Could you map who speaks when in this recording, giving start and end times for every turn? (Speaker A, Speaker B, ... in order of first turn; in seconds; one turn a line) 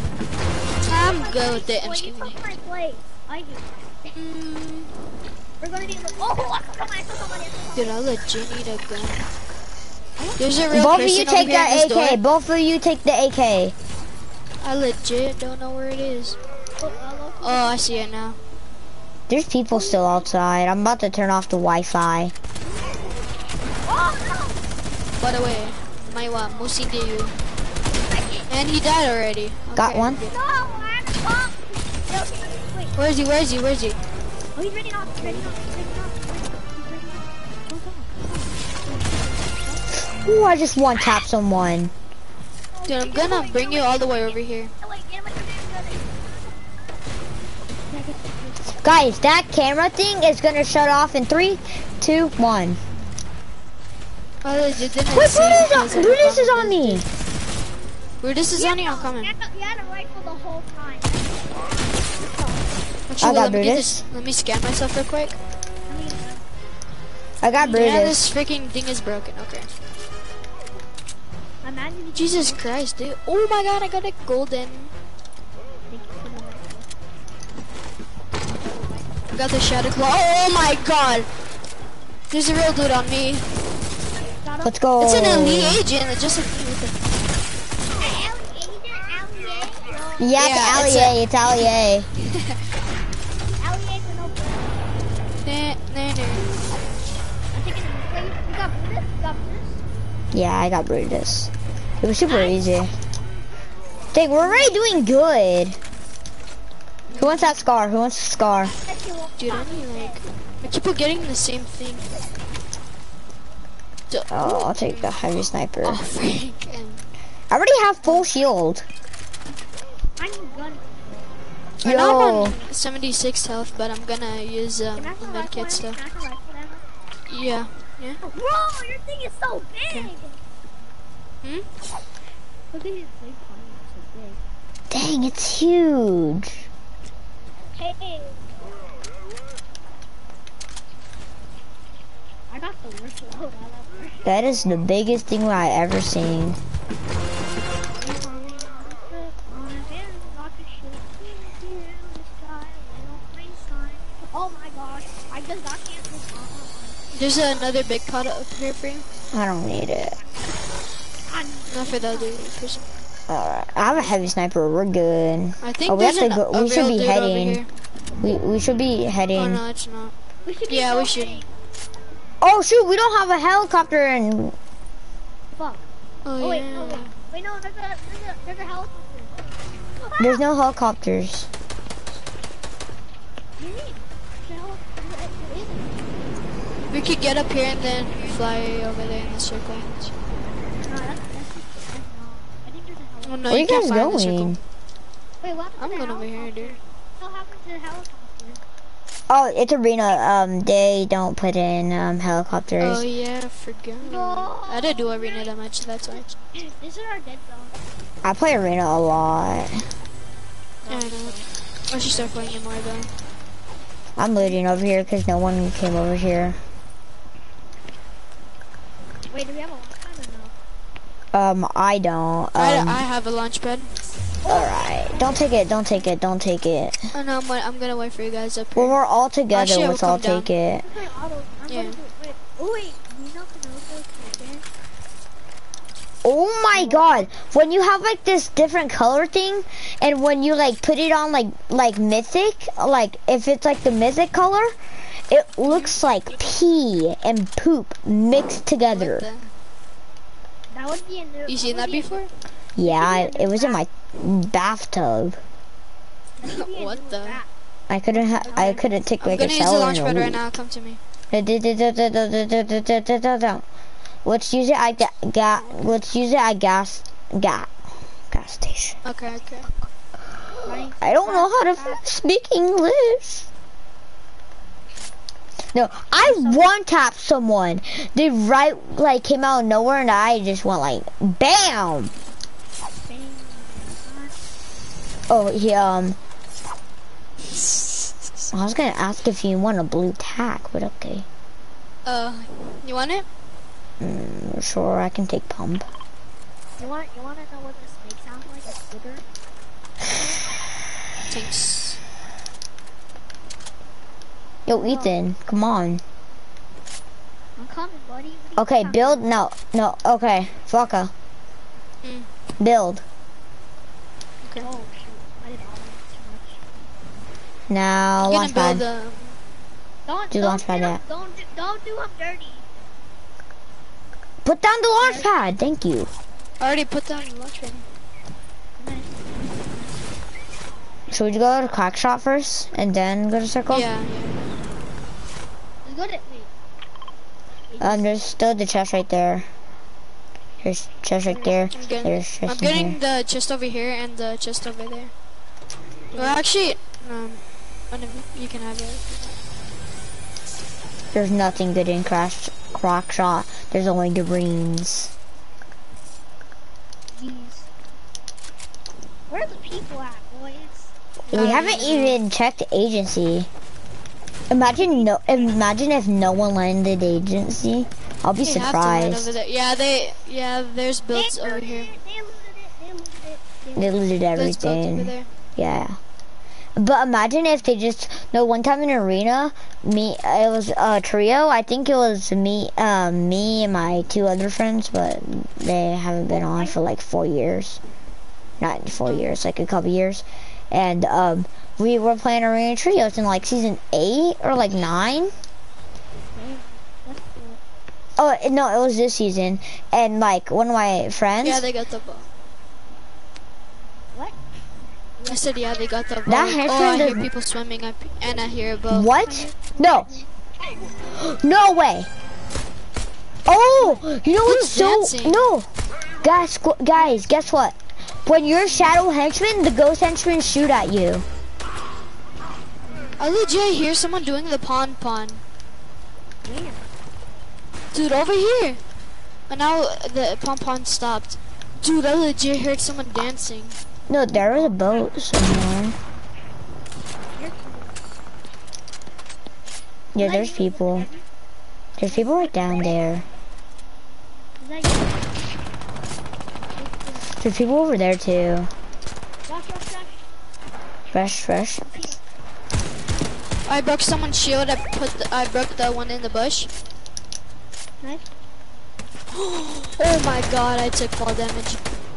Speaker A: 0.8-2.5
Speaker B: 0.8-4.2
Speaker A: 4.2-4.9
Speaker B: 5.6-8.2
Speaker A: 7.8-9.2
Speaker B: 10.2-10.8
Speaker A: 10.4-12.2
Speaker C: 10.7-13.8
Speaker A: 14.6-16.4
Speaker B: 16.8-18.1
Speaker A: 17.4-18.4
Speaker C: 19.3-22.3
Speaker B: 19.7-20.3
Speaker B: 22.6-23.3
Speaker B: 23.8-24.6
Speaker A: 25.2-27.4
Speaker B: 28.0-28.5
Speaker A: 28.5-30.4
Speaker C: 29.8-30.2
Speaker B: 30.2-33.0
Speaker A: 33.0-34.0
Speaker B: 34.5-39.8
Speaker C: 40.1-41.9
Speaker B: 42.7-46.8
Speaker A: 42.9-44.7
Speaker B: 47.9-48.6
Speaker C: 48.8-52.8
Speaker A: 54.4-57.0
Speaker C: 55.1-57.0
Speaker A: 58.2-59.3
Speaker B: 58.5-62.8
Speaker A: 63.1-65.4
Speaker C: 63.2-64.0
Speaker B: 65.9-66.5
Speaker C: 67.4-68.2
Speaker A: 67.6-69.7
Speaker B: 71.6-72.7
Speaker A: 72.2-74.9
Speaker B: 75.9-76.9
Speaker B: 78.5-79.2
Speaker A: 79.3-81.3
Speaker A: 82.3-83.5
Speaker B: 84.4-84.8
Speaker C: 84.6-85.8
Speaker A: 85.0-87.0
Speaker B: 87.9-90.4
Speaker C: 90.2-92.1
Speaker A: 90.3-91.2
Speaker B: 93.6-95.0
Speaker A: 95.4-96.6
Speaker B: 97.5-99.8
Speaker C: 100.3-102.9
Speaker C: 104.1-105.8
Speaker A: 107.1-107.5
Speaker C: 107.2-108.8
Speaker B: 108.8-110.2
Speaker A: 109.4-112.1
Speaker A: 114.1-115.2
Speaker C: 114.3-116.0
Speaker A: 115.8-117.1
Speaker C: 117.5-118.9
Speaker B: 120.2-121.1
Speaker A: 121.8-126.0
Speaker C: 121.8-122.6
Speaker B: 125.0-126.9
Speaker A: 127.3-128.2
Speaker B: 128.2-130.4
Speaker B: 132.7-134.4
Speaker C: 134.9-136.6
Speaker B: 137.7-138.4
Speaker B: 142.5-144.5
Speaker C: 144.2-146.6
Speaker B: 148.0-157.1
Speaker A: 157.1-159.1
Speaker C: 159.3-160.2
Speaker B: 161.3-162.9
Speaker A: 161.7-162.8
Speaker C: 163.3-167.6
Speaker A: 165.6-167.7
Speaker C: 168.2-169.6
Speaker A: 169.3-170.1
Speaker B: 170.4-171.5
Speaker A: 170.7-171.4
Speaker C: 172.4-174.6
Speaker B: 175.6-175.8
Speaker A: 176.2-177.1
Speaker B: 176.4-180.4
Speaker C: 180.2-181.5
Speaker B: 183.6-186.3
Speaker A: 186.9-190.2
Speaker B: 190.7-193.6
Speaker A: 193.2-194.6
Speaker C: 193.5-194.6
Speaker B: 195.4-198.6
Speaker A: 195.8-196.8
Speaker C: 199.3-203.1
Speaker A: 202.8-206.3
Speaker B: 204.0-205.5
Speaker B: 206.1-207.8
Speaker C: 208.2-209.8
Speaker B: 210.8-211.5
Speaker A: 210.9-213.1
Speaker C: 214.2-216.6
Speaker B: 214.4-214.8
Speaker B: 219.3-220.6
Speaker C: 221.3-223.0
Speaker A: 222.6-223.9
Speaker B: 224.4-225.4
Speaker C: 224.4-227.0
Speaker A: 227.1-229.0
Speaker C: 228.8-230.8
Speaker A: 229.5-230.5
Speaker B: 230.8-234.7
Speaker A: 231.7-232.0
Speaker C: 236.2-244.8
Speaker B: 236.7-237.3
Speaker C: 245.3-249.3
Speaker A: 248.9-249.5
Speaker B: 250.7-252.3
Speaker A: 251.5-252.3
Speaker C: 252.8-255.4
Speaker B: 252.8-253.8
Speaker B: 256.4-257.5
Speaker A: 256.4-257.4
Speaker C: 257.9-260.4
Speaker B: 258.3-258.8
Speaker A: 258.5-261.0
Speaker C: 261.3-263.6
Speaker C: 264.2-267.7
Speaker C: 268.3-269.0
Speaker A: 269.1-269.7
Speaker B: 270.6-272.0
Speaker C: 270.7-273.5
Speaker C: 275.7-282.1
Speaker B: 276.2-276.7
Speaker B: 283.0-284.3
Speaker C: 285.3-286.2
Speaker A: 287.6-288.1
Speaker C: 288.5-291.3
Speaker A: 292.1-293.2
Speaker C: 294.0-295.9
Speaker B: 296.8-299.2
Speaker A: 301.3-302.0
Speaker C: 304.7-306.0
Speaker B: 304.7-305.1
Speaker B: 307.6-309.2
Speaker C: 308.6-311.1
Speaker A: 312.0-312.3
Speaker C: 312.6-313.0
Speaker B: 314.6-316.6
Speaker C: 317.7-318.8
Speaker A: 318.2-319.4
Speaker B: 320.1-322.6
Speaker C: 320.3-321.0
Speaker C: 324.4-326.1
Speaker B: 325.0-325.3
Speaker A: 326.6-327.9
Speaker B: 328.8-330.3
Speaker C: 331.1-333.9
Speaker A: 333.7-334.5
Speaker B: 335.8-336.5
Speaker B: 337.7-338.1
Speaker C: 337.8-339.5
Speaker C: 340.6-343.0
Speaker B: 341.3-341.9
Speaker A: 341.7-345.1
Speaker B: 346.1-346.4
Speaker A: 346.1-349.4
Speaker C: 351.1-355.1
Speaker B: 357.1-357.7
Speaker B: 359.3-360.9
Speaker A: 361.3-362.2
Speaker C: 361.3-363.5
Speaker C: 364.5-369.3
Speaker B: 364.8-365.6
Speaker A: 368.4-371.9
Speaker B: 371.1-374.1
Speaker C: 373.8-376.0
Speaker A: 374.3-375.3
Speaker C: 376.8-387.8
Speaker B: 386.3-386.8
Speaker C: 388.6-395.3
Speaker B: 396.2-397.6
Speaker C: 398.2-401.7
Speaker A: 401.4-402.3
Speaker B: 405.2-405.9
Speaker A: 405.3-409.1
Speaker C: 406.3-407.3
Speaker C: 408.9-410.2
Speaker B: 409.2-410.8
Speaker C: 411.1-412.1
Speaker C: 413.5-415.7
Speaker B: 413.8-414.1
Speaker A: 414.4-415.5
Speaker C: 416.2-421.3
Speaker A: 423.2-425.4
Speaker B: 426.4-426.9
Speaker A: 427.9-428.8
Speaker A: 429.5-433.8
Speaker C: 434.1-436.0
Speaker B: 437.3-438.2
Speaker C: 440.1-441.1
Speaker B: 440.2-441.2
Speaker C: 442.0-443.3
Speaker B: 442.1-443.0
Speaker B: 444.6-445.3
Speaker B: 446.8-447.3
Speaker C: 447.4-448.7
Speaker B: 449.5-450.3
Speaker C: 451.1-451.9
Speaker B: 451.8-452.2
Speaker A: 453.7-456.7
Speaker B: 458.0-458.3
Speaker A: 459.3-461.9